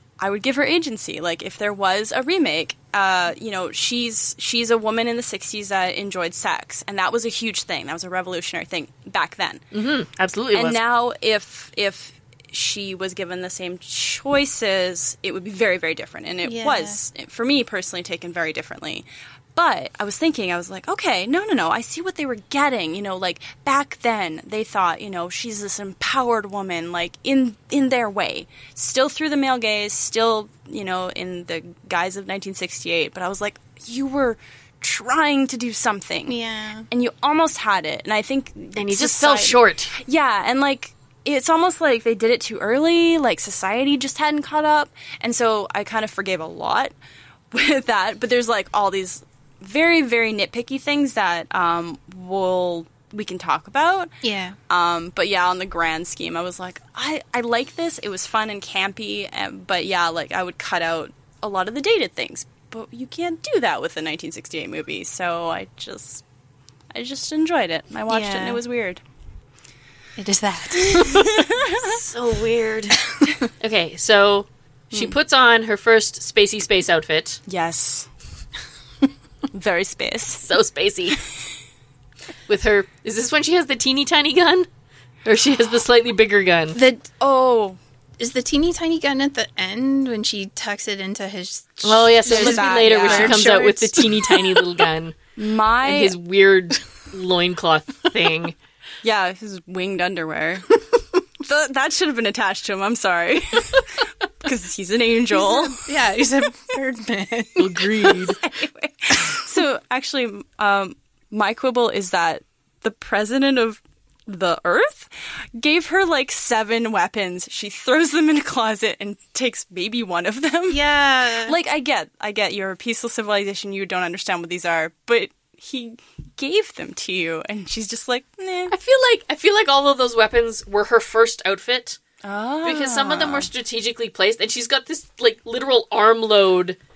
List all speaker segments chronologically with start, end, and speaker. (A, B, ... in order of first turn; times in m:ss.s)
0:00.2-0:09.6 A
0:09.7-0:10.8 B
0:10.5-0:36.4 A
0:16.4-0:17.0 C
0:36.3-0:36.9 C
0:36.9-0:46.9 A
0:38.7-0:39.9 B
0:47.5-0:54.1 A
0:54.2-0:54.6 C
0:54.7-1:06.2 A
1:06.9-1:09.0 A
1:08.1-1:08.6 C
1:10.2-1:11.6 C
1:10.8-1:12.0 A
1:11.7-1:13.0 B
1:13.6-1:17.4 B
1:17.5-1:18.1 A
1:19.5-1:20.4 A
1:20.3-1:21.2 B
1:22.5-1:24.7 B
1:25.2-1:26.8 B
1:26.7-1:27.1 C
1:27.2-1:27.8 A
1:28.2-1:34.7 C
1:31.8-1:35.2 B
1:32.3-1:33.5 A
1:35.4-1:36.2 A
1:35.8-1:38.5 B
1:39.0-1:40.8 A
1:41.4-1:45.9 A
1:45.3-1:47.9 C
1:47.6-1:48.4 B
1:48.4-2:00.9 A
2:00.7-2:01.6 C
2:01.4-2:08.7 A
2:08.7-2:12.0 B
2:12.2-2:13.5 A
2:12.6-2:16.8 B